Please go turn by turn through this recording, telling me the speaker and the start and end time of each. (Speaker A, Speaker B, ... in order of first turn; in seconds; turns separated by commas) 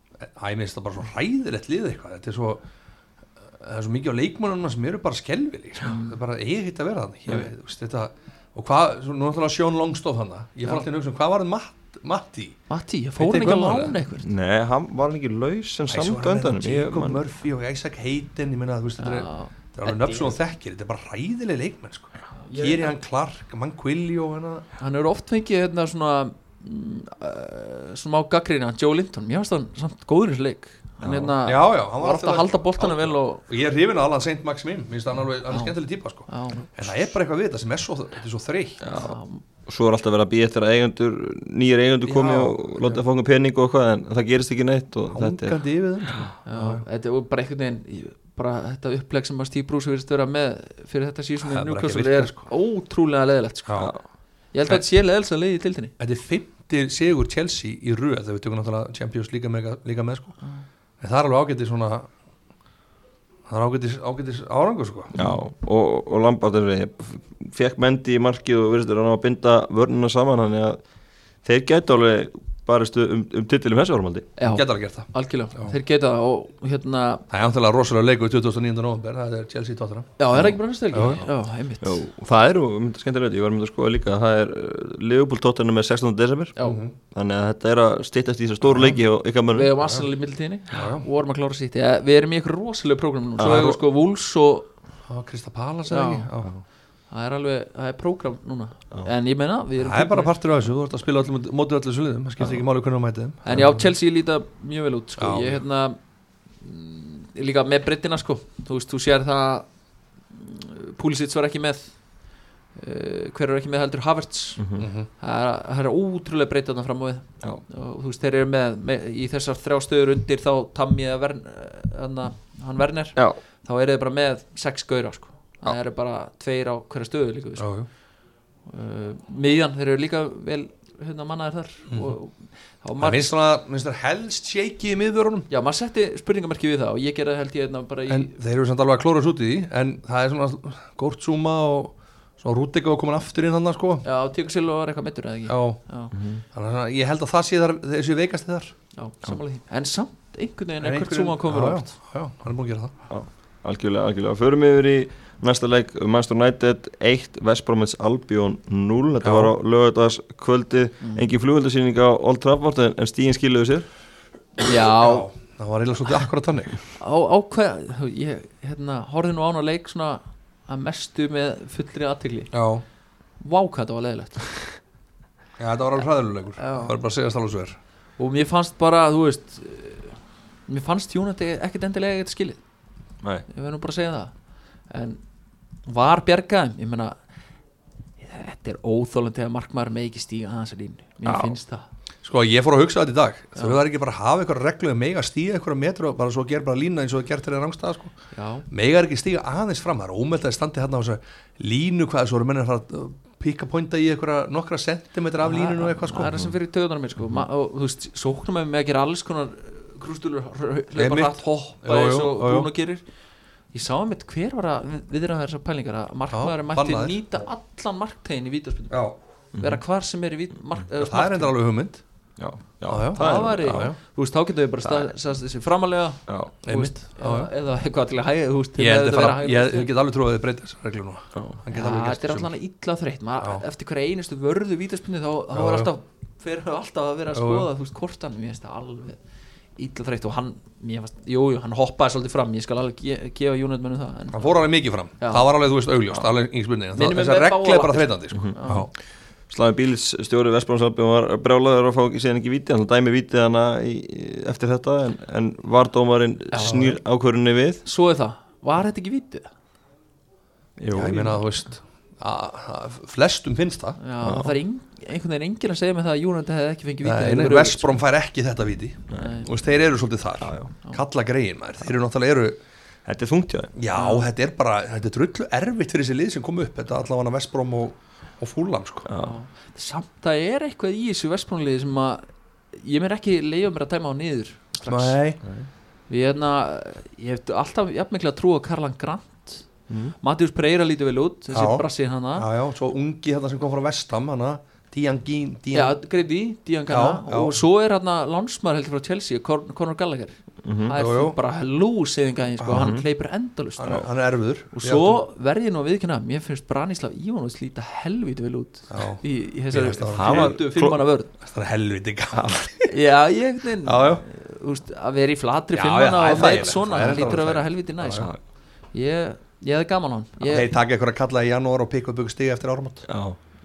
Speaker A: 0.2-2.6, Speaker A: 3.6-12.6, Speaker B: 5.8-6.2, Speaker B: 12.7-14.3, Speaker A: 13.2-14.0, Speaker C: 14.2-17.2, Speaker A: 15.9-24.7, Speaker B: 19.0-20.4, Speaker B: 22.4-23.0, Speaker B: 24.8-33.4, Speaker C: 31.0-31.4, Speaker A: 31.4-38.8, Speaker B: 35.5-35.8, Speaker B: 36.3-36.7, Speaker C: 38.8-46.3, Speaker B: 38.9-39.4, Speaker A: 42.1-43.0, Speaker A: 45.1-46.8, Speaker B: 46.5-54.0, Speaker A: 51.4-52.5, Speaker A: 53.7-53.9, Speaker B: 54.5-55.9, Speaker A: 56.0-60.4, Speaker A: 61.0-62.1, Speaker A: 63.5-65.1, Speaker C: 65.2-70.8, Speaker C: 71.4-74.3, Speaker B: 74.4-77.2, Speaker A: 74.5-75.7, Speaker A: 77.3-80.1, Speaker B: 80.2-82.0, Speaker A: 80.9-81.2, Speaker C: 81.8-86.6, Speaker B: 86.6-86.8, Speaker A: 86.6-86.9, Speaker C: 87.1-89.8, Speaker A: 88.7-89.0, Speaker B: 89.5-94.7, Speaker A: 90.7-91.1, Speaker C: 93.4-93.7, Speaker A: 93.4-93.8, Speaker A: 95.1-96.5, Speaker B: 95.9-96.3, Speaker B: 97.1-100.3, Speaker A: 99.8-103.9, Speaker B: 103.5-106.0, Speaker A: 105.2-105.6, Speaker B: 106.6-109.7, Speaker B: 110.3-112.0, Speaker B: 112.8-114.6, Speaker C: 114.6-114.9, Speaker A: 114.8-115.1, Speaker B: 115.2-127.7, Speaker A: 127.6-127.9, Speaker B: 128.7-133.3, Speaker A: 131.9-132.2, Speaker A: 133.0-135.5, Speaker B: 135.5-138.3, Speaker A: 138.1-144.1, Speaker B: 144.0-146.1, Speaker A: 145.5-145.8, Speaker C: 146.1-146.4, Speaker A: 146.5-148.7, Speaker B: 149.0-151.9, Speaker A: 150.8-152.9, Speaker C: 153.1-163.9, Speaker A: 159.2-159.5, Speaker B: 161.0-161.3, Speaker B: 164.6-165.3, Speaker A: 165.0-166.8, Speaker B: 167.0-172.5, Speaker A: 172.5-172.8, Speaker B: 173.4-174.7, Speaker A: 175.6-177.8, Speaker B: 176.6-177.0, Speaker B: 178.2-182.6, Speaker B: 183.5-184.3, Speaker B: 184.9-185.2, Speaker B: 185.9-187.2, Speaker B: 188.2-191.9, Speaker A: 192.2-198.1, Speaker B: 198.3-198.7, Speaker A: 198.7-206.5, Speaker B: 205.4-213.0, Speaker A: 211.0-212.7, Speaker B: 213.7-219.0, Speaker A: 216.3-217.2, Speaker A: 218.9-219.2, Speaker C: 219.5-219.8, Speaker B: 219.6-221.5, Speaker A: 221.0-222.0, Speaker C: 222.4-223.9, Speaker A: 222.9-224.0, Speaker B: 223.1-229.9, Speaker C: 224.8-225.1, Speaker C: 226.3-226.6, Speaker A: 226.6-227.5, Speaker A: 228.8-232.5, Speaker C: 231.3-231.6, Speaker B: 231.7-239.2, Speaker A: 235.5-235.9, Speaker A: 237.3-237.7, Speaker B: 239.8-244.5, Speaker A: 244.3-248.9, Speaker B: 245.2-245.5, Speaker B: 246.9-248.9, Speaker C: 248.3-248.8, Speaker C: 249.5-257.8, Speaker B: 256.5-257.0, Speaker B: 257.8-259.5, Speaker C: 260.8-261.4, Speaker A: 260.9-264.0, Speaker B: 264.0-268.0, Speaker C: 264.2-264.6, Speaker A: 267.0-272.6, Speaker C: 269.1-269.4, Speaker B: 269.1-269.5, Speaker C: 270.4-270.7, Speaker C: 273.1-273.7, Speaker A: 273.8-279.1, Speaker B: 273.9-274.3, Speaker C: 279.1-279.4, Speaker B: 279.2-285.2, Speaker A: 284.9-285.4, Speaker B: 286.1-289.7, Speaker C: 289.9-290.1, Speaker B: 290.2-292.5, Speaker A: 291.5-296.0, Speaker B: 295.7-304.1, Speaker A: 296.9-297.6, Speaker C: 300.6-300.9, Speaker A: 300.9-301.4, Speaker A: 302.6-302.9, Speaker C: 302.7-303.1, Speaker A: 303.8-305.2, Speaker B: 304.7-311.3, Speaker A: 308.9-310.6, Speaker C: 310.1-311.0, Speaker A: 311.4-312.9, Speaker C: 312.3-312.6, Speaker B: 312.9-318.4, Speaker A: 313.8-314.2, Speaker A: 315.7-318.3, Speaker B: 318.9-320.7, Speaker A: 320.4-323.1, Speaker C: 323.1-323.4